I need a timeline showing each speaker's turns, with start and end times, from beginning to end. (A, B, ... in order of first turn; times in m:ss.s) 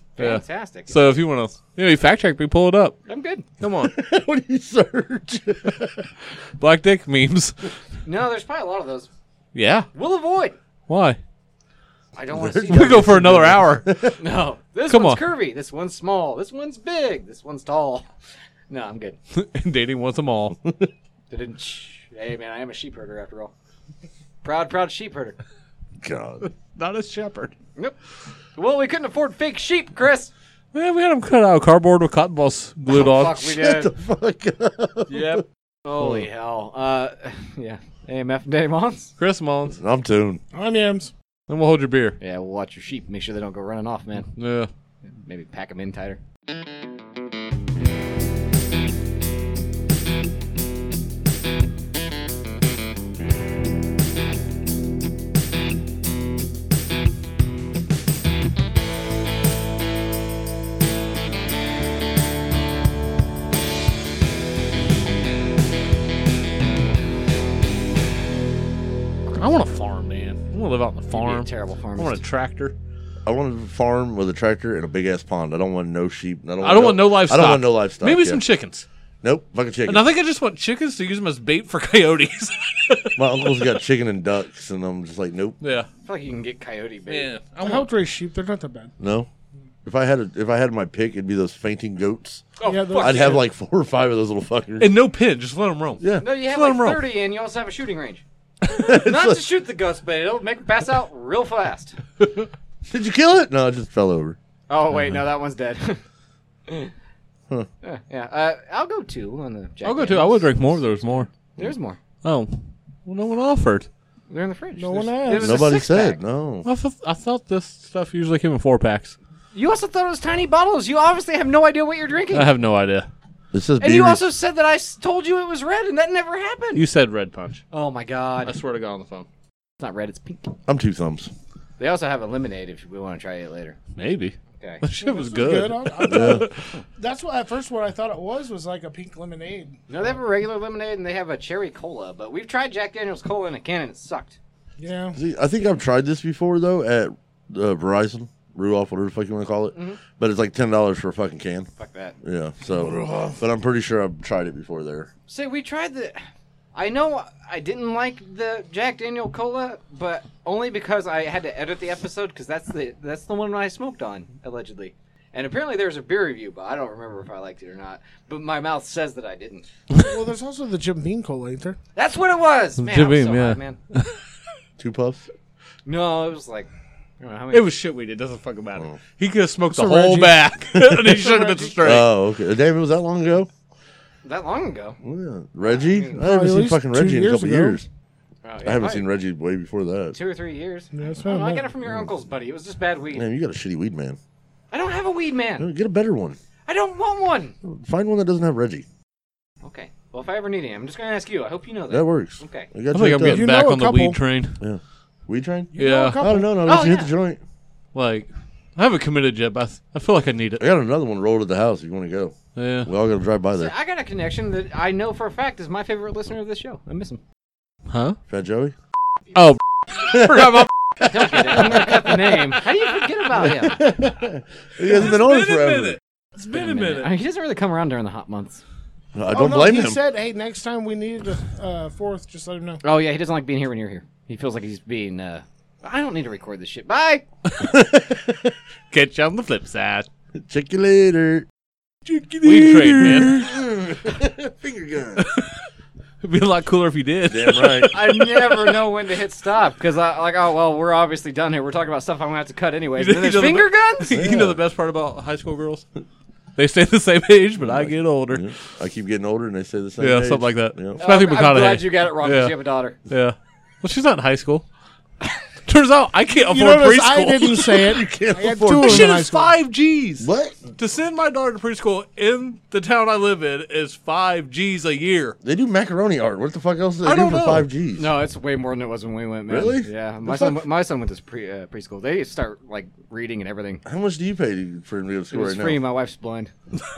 0:00.2-0:01.1 A
0:00.2-0:03.0 B
0:03.1-0:03.4 A
0:03.6-0:03.9 B
0:03.8-0:06.1 C
0:06.6-0:07.7 B
0:08.0-0:09.1 A
0:09.5-0:09.9 B
0:09.9-0:10.6 A
0:10.9-0:11.2 B
0:12.2-0:13.3 A
0:12.3-0:14.2 C
0:12.7-0:13.9 B
0:14.2-0:18.1 A
0:14.9-0:15.2 B
0:18.7-0:19.2 A
0:19.3-0:20.6 B
0:21.3-0:23.5 A
0:24.4-0:25.4 A
0:26.0-0:26.5 C
0:26.7-0:27.6 B
0:28.6-0:30.3 A
0:30.7-0:33.4 B
0:32.9-0:33.9 A
0:33.3-0:35.4 C
0:35.1-0:35.4 B
0:35.8-0:39.1 A
0:36.0-0:36.3 C
0:39.2-0:39.8 B
0:39.7-0:40.4 C
0:40.5-0:41.1 D
0:41.5-0:42.2 B
0:42.2-0:44.3 A
0:44.4-0:44.7 B
0:45.2-0:46.2 A
1:09.3-1:12.8 B
1:11.1-1:12.2 A
1:13.2-1:18.4 C
1:16.6-1:18.9 B
1:19.2-1:20.1 C
1:19.9-1:23.5 B
1:23.2-1:25.6 C
1:25.6-1:25.9 B
1:26.0-1:27.3 A
1:27.1-1:27.9 B
1:27.6-1:28.9 D
1:29.0-1:29.3 C
1:29.8-1:34.9 C
1:32.6-1:33.4 A
1:32.6-1:33.4 D
1:34.8-1:37.0 B
1:36.0-1:36.2 C
1:36.2-1:42.0 A
1:38.8-1:39.4 C
1:42.9-1:44.4 C
1:44.7-1:46.0 A
1:46.7-1:46.9 A
1:47.8-1:50.8 A
1:49.8-1:51.3 B
1:51.6-1:52.0 A
1:52.2-1:53.9 B
1:54.3-1:56.2 A
1:54.8-1:55.7 D
1:55.3-1:56.7 C
1:56.6-1:59.2 B
1:59.5-2:02.5 A
2:02.3-2:03.1 B
2:03.5-2:04.2 C
2:03.8-2:06.8 A
2:06.8-2:07.6 B
2:07.7-2:08.6 A
2:08.4-2:09.3 B
2:09.8-2:10.5 A
2:10.7-2:11.3 C
2:11.8-2:13.8 A
2:14.0-2:16.7 B
2:14.6-2:14.8 A
2:15.0-2:19.8 D
2:16.1-2:16.5 C
2:19.9-2:24.4 A
2:24.8-2:25.2 D
2:25.1-2:31.7 C
2:29.7-2:30.0 A
2:31.8-2:32.2 A
2:32.2-2:35.1 C
2:35.3-2:36.2 A
2:36.8-2:49.7 A
2:50.0-2:51.8 D
2:52.0-2:53.8 A
2:52.8-2:54.2 B
2:54.8-2:55.3 C
2:55.9-2:56.7 A
2:57.2-2:57.7 A
2:57.5-3:02.1 B
2:59.7-3:00.5 D
3:00.8-3:01.1 C
3:01.2-3:01.7 D
3:01.8-3:03.5 C
3:04.2-3:05.0 A
3:05.0-3:07.9 C
3:05.6-3:06.3 A
3:06.2-3:07.8 D
3:08.4-3:09.1 A
3:08.6-3:10.2 C
3:10.1-3:13.2 A
3:10.9-3:11.7 D
3:13.1-3:14.2 C
3:14.7-3:15.7 A
3:15.6-3:16.4 C
3:16.7-3:17.6 A
3:17.6-3:18.9 C
3:19.6-3:22.7 A
3:21.9-3:23.5 C
3:22.9-3:24.6 B
3:23.2-3:24.2 D
3:24.6-3:27.4 C
3:25.7-3:26.8 D
3:25.8-3:26.2 B
3:26.6-3:27.1 A
3:27.9-3:30.6 B
3:30.6-3:33.7 C
3:32.6-3:32.9 B
3:33.6-3:37.2 A
3:37.9-3:38.2 B
3:38.3-3:38.8 C
3:39.3-3:42.2 B
3:40.1-3:42.1 C
3:41.0-3:43.8 A
3:43.3-3:46.0 C
3:44.8-3:47.2 B
3:46.5-3:48.6 A
3:49.2-3:50.0 C
3:49.3-3:52.8 D
3:52.8-3:57.2 A
3:57.6-3:58.5 C
3:58.9-4:00.1 B
4:00.4-4:01.5 C
4:02.1-4:03.5 B
4:02.4-4:05.2 C
4:05.2-4:05.6 B
4:06.2-4:08.8 B
4:07.3-4:07.9 C
4:07.9-4:14.2 A
4:13.0-4:15.8 B
4:14.1-4:14.6 C
4:16.6-4:18.5 B
4:17.6-4:21.0 C
4:20.0-4:24.6 B
4:21.0-4:23.0 A
4:25.7-4:28.0 B
4:26.3-4:29.6 D
4:27.7-4:29.2 C
4:28.7-4:35.4 B
4:30.2-4:30.7 C
4:35.4-4:38.1 C
4:37.0-4:37.7 B
4:38.0-4:43.8 A
4:39.5-4:40.6 C
4:43.8-4:45.8 C
4:45.3-4:46.5 A